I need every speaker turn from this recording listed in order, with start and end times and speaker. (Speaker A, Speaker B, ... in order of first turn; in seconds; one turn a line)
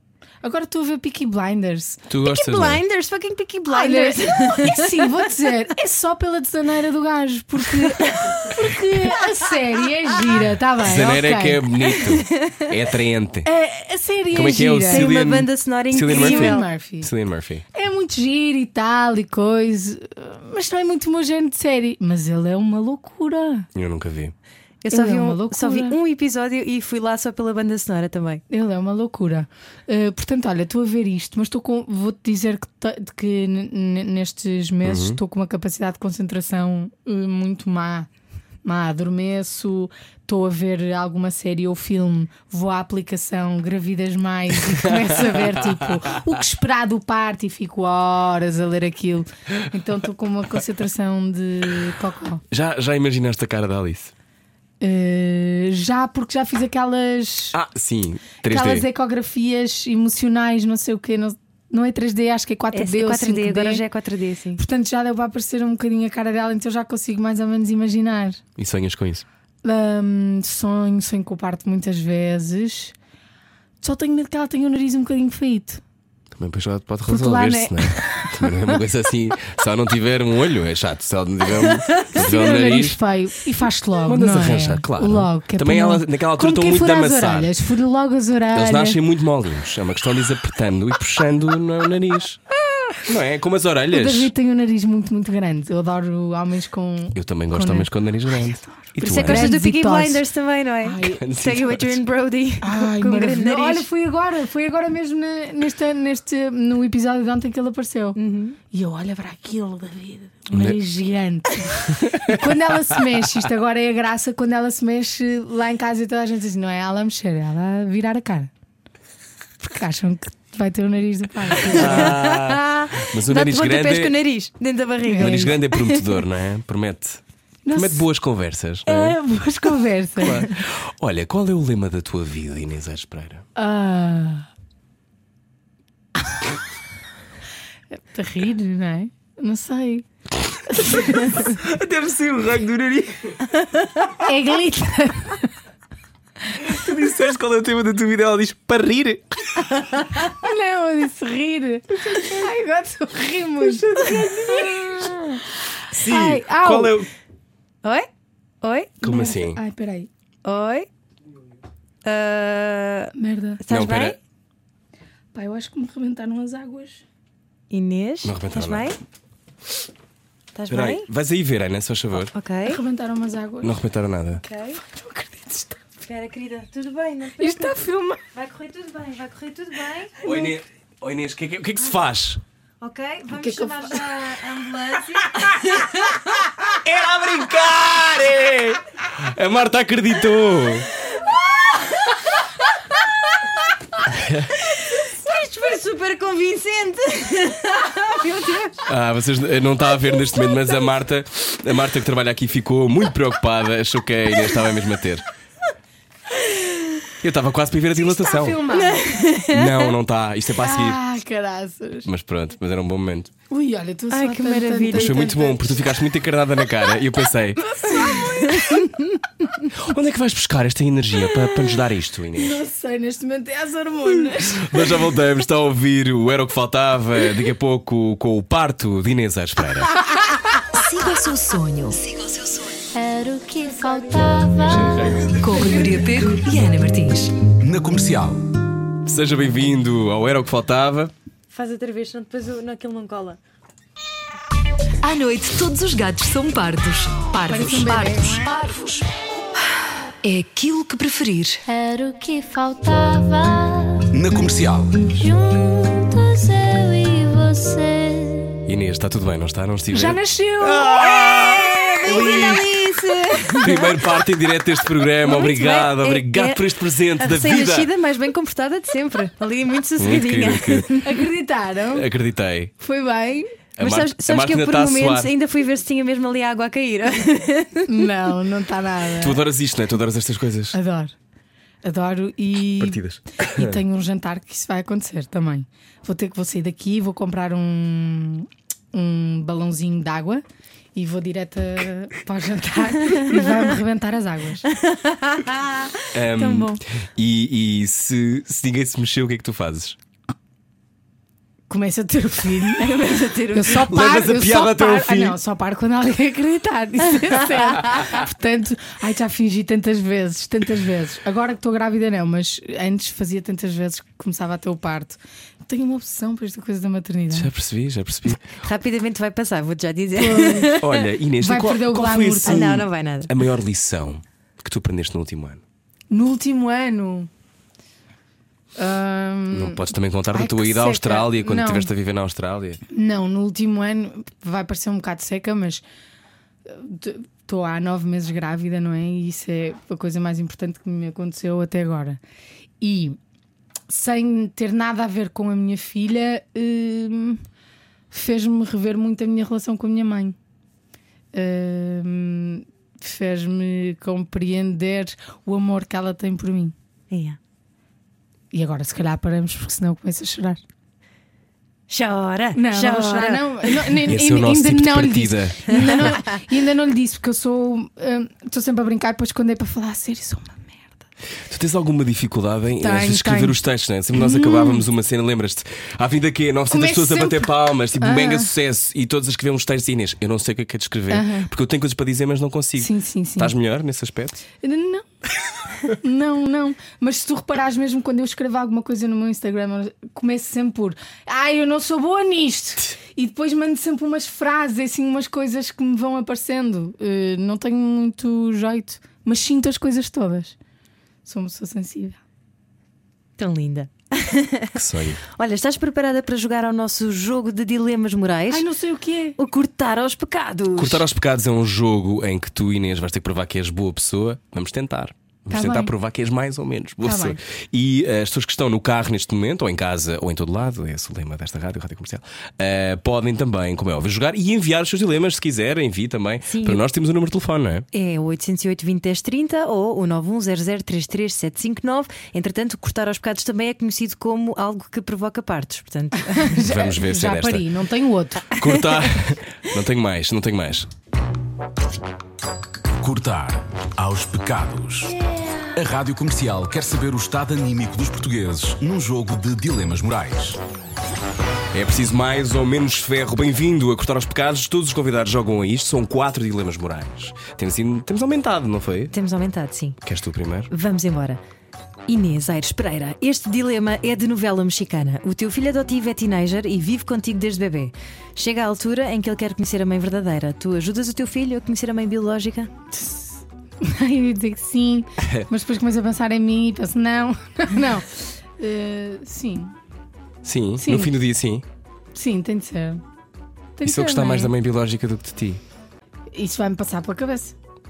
Speaker A: 0.4-2.0
Speaker B: 2.1-2.8
Speaker C: 2.2-5.3
Speaker A: 3.7-12.0
Speaker C: 7.8-8.3
Speaker B: 10.8-13.5
Speaker C: 12.0-12.7
Speaker A: 13.4-15.1
Speaker B: 14.3-17.6
Speaker C: 14.7-16.6
Speaker A: 16.1-17.1
Speaker A: 17.7-23.7
Speaker B: 23.7-24.3
Speaker C: 24.8-28.4
Speaker A: 24.9-25.9
Speaker A: 28.5-38.1
Speaker B: 34.8-35.2
Speaker A: 38.6-52.4
Speaker B: 44.8-45.4
Speaker B: 52.5-54.1
Speaker A: 54.8-57.6
Speaker B: 57.5-58.9
Speaker A: 58.5-63.8
Speaker C: 62.7-64.6
Speaker A: 64.6-68.4
Speaker B: 68.6-69.2
Speaker A: 69.6-72.9
Speaker A: 73.8-75.8
Speaker B: 76.3-83.0
Speaker A: 77.1-78.8
Speaker A: 82.1-89.0
Speaker B: 84.0-87.5
Speaker B: 88.5-92.4
Speaker B: 93.0-94.3
Speaker A: 93.9-100.2
Speaker B: 97.1-99.5
Speaker C: 99.0-103.9
Speaker A: 100.8-101.2
Speaker B: 101.2-102.0
Speaker A: 102.6-108.2
Speaker C: 108.2-108.6
Speaker A: 108.7-118.5
Speaker B: 110.5-110.8
Speaker B: 111.9-112.6
Speaker A: 119.6-122.2
Speaker B: 121.7-124.1
Speaker C: 121.7-126.2
Speaker A: 125.0-125.5
Speaker B: 125.2-127.2
Speaker A: 127.6-128.1
Speaker B: 127.7-129.2
Speaker A: 128.8-130.5
Speaker B: 130.2-133.4
Speaker A: 133.6-134.5
Speaker A: 137.9-140.0
Speaker A: 140.7-141.5
Speaker B: 141.1-143.5
Speaker A: 144.1-145.5
Speaker B: 146.5-149.7
Speaker A: 150.3-155.2
Speaker C: 153.9-155.3
Speaker B: 155.9-157.1
Speaker A: 155.9-157.0
Speaker C: 158.6-158.9
Speaker A: 159.0-160.1
Speaker B: 159.0-159.6
Speaker C: 160.4-160.9
Speaker C: 162.0-164.2
Speaker A: 163.2-163.6
Speaker B: 163.7-164.2
Speaker A: 165.3-167.0
Speaker C: 167.7-169.0
Speaker B: 168.2-168.9
Speaker C: 170.5-171.1
Speaker B: 170.7-172.3
Speaker C: 172.3-172.8
Speaker A: 172.7-173.8
Speaker B: 173.6-174.4
Speaker C: 174.4-174.8
Speaker A: 174.8-175.8
Speaker C: 176.0-180.3
Speaker A: 177.4-178.2
Speaker B: 180.2-182.4
Speaker C: 182.8-186.5
Speaker A: 183.3-184.0
Speaker B: 186.7-190.9
Speaker C: 191.6-192.1
Speaker B: 194.1-194.5
Speaker C: 194.6-198.8
Speaker B: 198.8-205.2
Speaker B: 207.2-208.6
Speaker A: 207.9-209.2
Speaker C: 208.7-209.9
Speaker B: 209.4-211.0
Speaker A: 210.6-212.1
Speaker B: 212.0-213.3
Speaker A: 213.5-215.8
Speaker C: 214.1-215.3
Speaker B: 214.9-217.8
Speaker A: 217.6-219.1
Speaker C: 218.1-218.9
Speaker B: 219.7-222.6
Speaker A: 222.3-225.0
Speaker B: 224.5-230.0
Speaker D: 230.7-232.7
Speaker E: 232.9-235.2
Speaker B: 234.7-235.5
Speaker D: 235.4-237.3
Speaker F: 237.6-238.4
Speaker B: 239.0-241.1
Speaker C: 241.5-243.4
Speaker D: 245.0-249.0
Speaker A: 247.5-249.0
Speaker D: 250.2-251.6
Speaker E: 251.7-254.1
Speaker F: 254.1-255.1
Speaker E: 255.1-258.6
Speaker B: 258.7-262.7
Speaker A: 259.9-262.5
Speaker C: 262.0-264.0
Speaker B: 263.6-267.9
Speaker C: 265.2-271.2
Speaker B: 270.0-270.9
Speaker A: 271.0-272.1
Speaker B: 271.9-272.7
Speaker A: 272.8-273.5
Speaker B: 273.8-275.3
Speaker C: 273.8-277.9
Speaker A: 277.9-279.4
Speaker B: 279.2-280.8
Speaker A: 280.7-281.1
Speaker A: 281.8-290.4
Speaker B: 282.8-283.8
Speaker A: 290.9-294.7
Speaker C: 294.7-296.8
Speaker B: 296.1-300.0
Speaker A: 301.7-317.5
Speaker C: 302.7-303.9
Speaker B: 303.9-305.4
Speaker B: 317.3-318.5
Speaker C: 318.5-320.9
Speaker A: 320.1-320.8
Speaker B: 320.8-325.6
Speaker A: 321.4-322.8
Speaker C: 322.4-323.3
Speaker A: 326.1-327.3
Speaker A: 328.8-331.9
Speaker B: 329.5-332.8
Speaker A: 332.9-335.8
Speaker A: 336.6-342.2
Speaker A: 342.8-343.2
Speaker A: 343.9-347.4
Speaker A: 348.1-350.4
Speaker A: 351.3-356.7
Speaker C: 357.1-357.4
Speaker A: 358.5-360.6
Speaker C: 361.9-363.9
Speaker A: 362.5-371.0
Speaker B: 364.1-366.0
Speaker B: 371.5-384.4
Speaker A: 372.8-373.6
Speaker A: 374.1-374.8
Speaker A: 376.7-378.5
Speaker A: 381.1-381.5
Speaker A: 382.8-383.5
Speaker A: 384.6-385.1
Speaker A: 385.8-400.6
Speaker A: 401.2-402.2
Speaker C: 403.4-408.6
Speaker B: 404.7-405.2
Speaker A: 408.5-409.4
Speaker C: 409.4-411.0
Speaker B: 410.8-427.9
Speaker A: 415.5-415.9
Speaker A: 417.0-417.4
Speaker C: 426.4-426.8
Speaker C: 427.9-436.6
Speaker A: 436.3-438.7
Speaker B: 436.6-437.6
Speaker B: 438.5-440.9
Speaker F: 443.0-445.1
Speaker A: 445.3-445.7
Speaker F: 445.7-450.6
Speaker B: 451.7-459.1
Speaker C: 459.1-460.0
Speaker B: 460.0-460.7
Speaker C: 460.7-461.4
Speaker C: 462.1-472.7
Speaker A: 472.9-479.7
Speaker B: 475.2-475.5
Speaker B: 480.4-481.6
Speaker A: 480.8-481.1
Speaker A: 482.1-483.0
Speaker A: 483.8-484.5
Speaker B: 483.8-485.6
Speaker A: 486.3-487.6